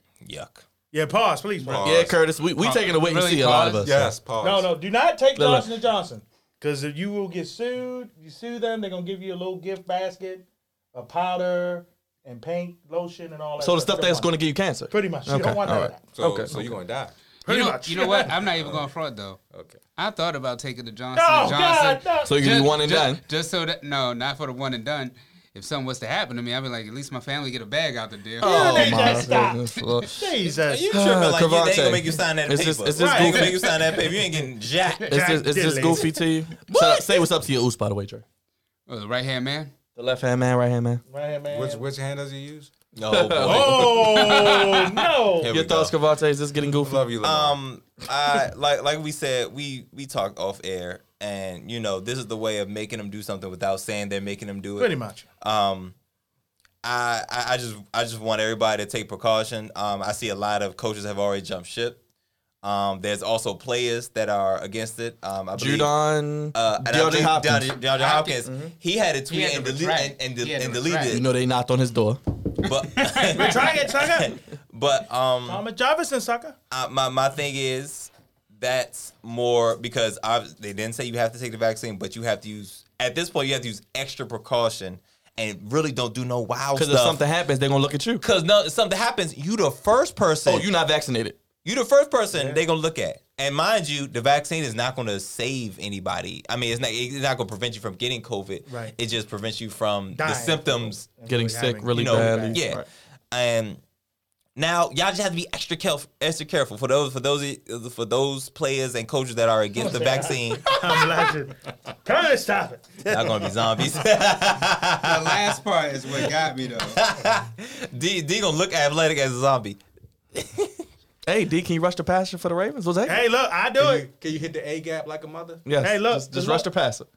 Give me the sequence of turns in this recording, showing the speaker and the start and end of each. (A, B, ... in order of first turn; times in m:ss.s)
0:00.2-0:00.6 A
0:00.9-0:02.1 B
0:01.6-0:02.2 C
0:01.8-0:04.1 D
0:02.6-0:03.9 E
0:03.8-0:04.7 C
0:04.4-0:14.4 B
0:05.4-0:05.7 D
0:13.6-0:16.8 D
0:14.9-0:16.1 B
0:16.2-0:17.2 C
0:17.5-0:18.3 B
0:17.5-0:19.4 E
0:18.6-0:18.9 C
0:19.5-0:19.8 C
0:20.0-0:30.1 E
0:21.1-0:22.5 B
0:22.2-0:23.2 D
0:28.4-0:30.2 D
0:28.4-0:30.9 B
0:30.5-0:35.2 A
0:30.9-0:33.7 D
0:33.0-0:33.5 B
0:33.3-0:34.2 E
0:35.1-0:36.1 B
0:35.1-0:38.2 D
0:38.9-0:39.7 E
0:40.0-0:41.0 D
0:41.1-0:41.9 B
0:41.5-0:42.7 C
0:43.0-0:44.5 A
0:43.1-0:44.3 D
0:43.4-0:45.5 B
0:44.2-0:44.9 E
0:45.4-0:46.0 A
0:45.4-0:47.0 D
0:46.7-0:47.6 C
0:47.2-0:56.0 A
0:54.8-0:55.3 B
0:56.8-1:02.0 A
1:02.6-1:11.3 A
1:05.6-1:07.8 D
1:07.9-1:08.4 E
1:08.5-1:08.7 D
1:09.3-1:11.2 E
1:11.1-1:12.2 D
1:12.6-1:13.7 E
1:12.6-1:15.6 A
1:13.3-1:14.4 B
1:15.4-1:16.6 B
1:16.7-1:27.2 A
1:26.8-1:28.2 D
1:28.2-1:30.7 A
1:30.4-1:31.4 D
1:31.6-1:41.1 A
1:32.3-1:32.6 B
1:38.7-1:39.0 B
1:40.1-1:42.6 B
1:41.3-1:42.9 D
1:41.9-1:43.8 A
1:44.6-1:51.1 A
1:49.8-1:53.8 B
1:53.1-1:55.6 A
1:55.0-1:57.0 E
1:56.8-1:59.8 A
2:00.3-2:00.8 A
2:01.3-2:03.2 D
2:03.1-2:04.1 B
2:03.8-2:05.7 C
2:05.7-2:07.1 D
2:05.8-2:06.7 B